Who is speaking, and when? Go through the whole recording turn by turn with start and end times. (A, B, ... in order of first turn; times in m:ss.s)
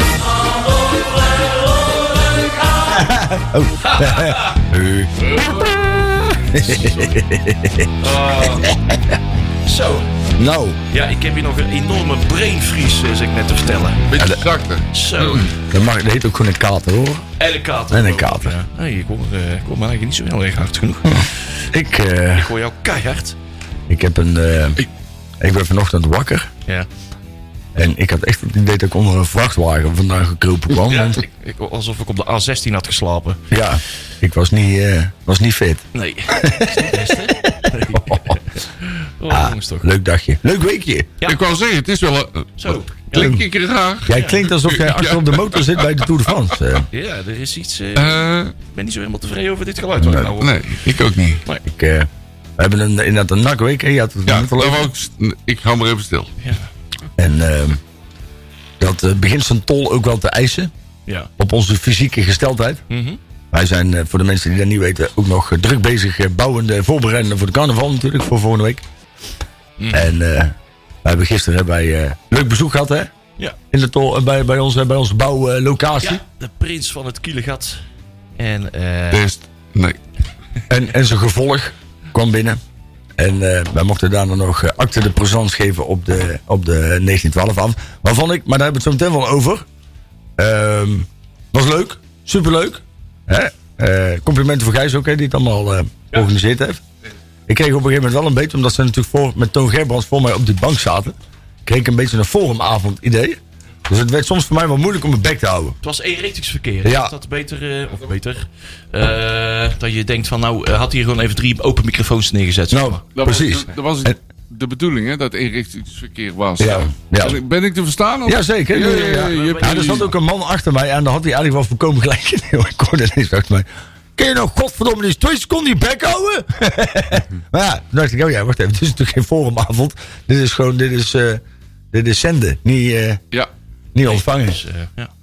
0:00.3-0:03.1 A
0:02.9-0:05.3 B
0:03.8-0:04.6 A
0:05.2-0:05.8 A
0:06.5-0:09.2 B
0:06.5-0:07.2 A
0:08.0-0:08.8 A
0:09.6-0:10.1 A
0:10.4-0:10.8 B
0:10.9-0:14.1 A
0:14.1-0:15.4 C
0:14.2-0:14.4 B
0:14.9-0:15.5 A
0:15.5-0:17.2 B
0:17.4-0:21.3 A
0:17.9-0:18.5 B
0:21.1-0:22.5 B
0:22.3-0:23.4 A
0:23.9-0:24.8 B
0:25.4-0:26.5 B
0:27.7-0:31.2 B
0:30.9-0:33.4 A
0:33.5-0:38.4 B
0:35.9-0:39.9 A
0:39.3-0:41.1 B
0:41.2-0:46.0 C
0:42.6-0:43.3 A
0:43.1-0:43.4 B
0:44.0-0:46.9 B
0:44.1-0:44.4 A
0:46.9-0:50.8 A
0:48.0-0:48.5 C
0:50.0-0:50.3 B
0:50.4-0:51.4 C
0:51.6-0:54.9 B
0:54.3-0:56.3 C
0:57.2-0:57.8 B
0:58.8-1:00.7 B
1:01.4-1:02.8 B
1:02.9-1:03.2 A
1:03.5-1:08.8 B
1:09.8-1:10.1 A
1:09.9-1:10.5 B
1:11.0-1:13.1 B
1:13.7-1:16.2 B
1:16.0-1:17.8 A
1:18.4-1:19.2 A
1:19.1-1:20.0 C
1:20.7-1:22.6 B
1:23.2-1:29.6 B
1:30.4-1:36.8 B
1:37.5-1:45.8 B
1:45.8-1:53.0 A
1:46.8-1:47.1 B
1:52.7-1:54.2 B
1:53.1-2:00.1 C
1:56.6-1:57.4 B
1:58.2-2:13.2 B
1:59.0-2:00.1 A
2:13.9-2:14.6 B
2:14.0-2:15.1 A